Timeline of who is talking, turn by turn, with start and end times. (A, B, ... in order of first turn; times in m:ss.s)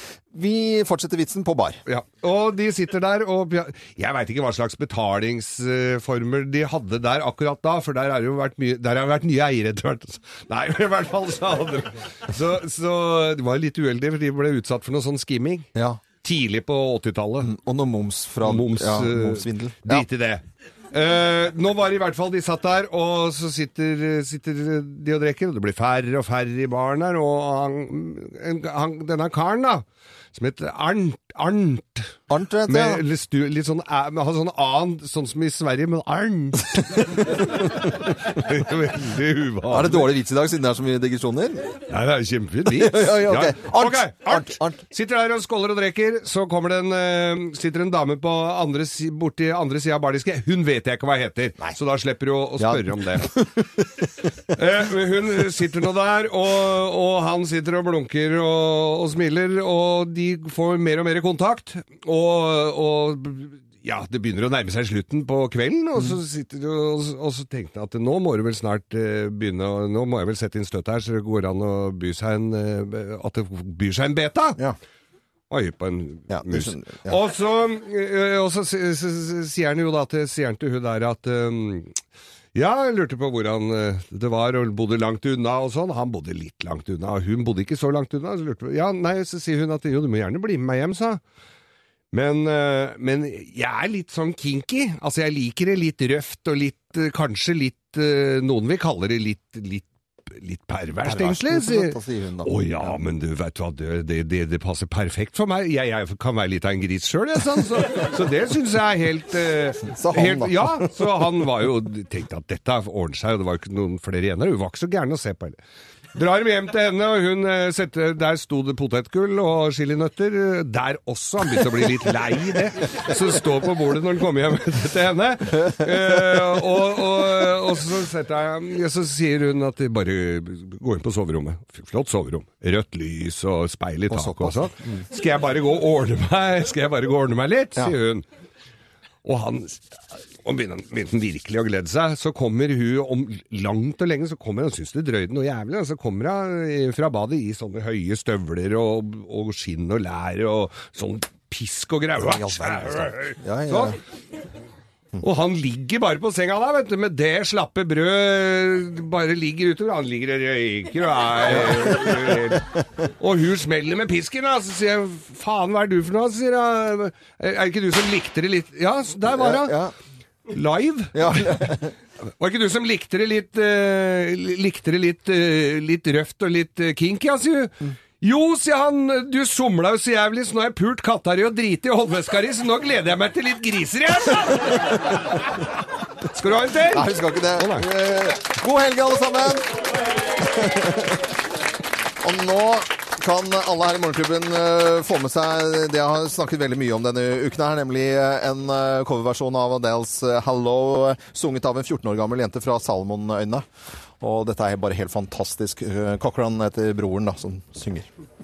0:00.3-0:01.8 A
0:01.9-0:15.7 B
0:15.7-0:16.0 A
0:16.2-0:17.5 B
0:17.4-0:20.0 A
0:18.4-0:32.2 B
0:32.3-0:33.0 A
0:32.7-0:40.1 B
0:39.7-0:41.7 A
0:41.8-0:53.3 B
0:42.6-0:44.8 A
0:52.6-0:53.7 A
0:54.5-1:14.6 B
1:15.5-1:22.0 B
1:16.3-1:17.2 A
1:22.5-1:31.2 B
1:32.1-1:55.6 B
1:41.0-1:43.0 A
1:49.9-1:50.9 A
1:56.1-2:18.2 B
2:14.1-2:14.7 A
2:19.2-2:34.0 B
2:32.2-2:34.0 A
2:35.2-2:49.8 B
2:41.7-2:42.3 A
2:49.3-2:49.9 A
2:50.5-2:51.8 B
2:51.1-2:51.9 A
2:52.4-3:05.1 B
3:06.2-3:07.9 B
3:06.9-3:09.7 A
3:10.4-3:11.3 A
3:12.2-3:23.6 A
3:24.2-3:28.1 A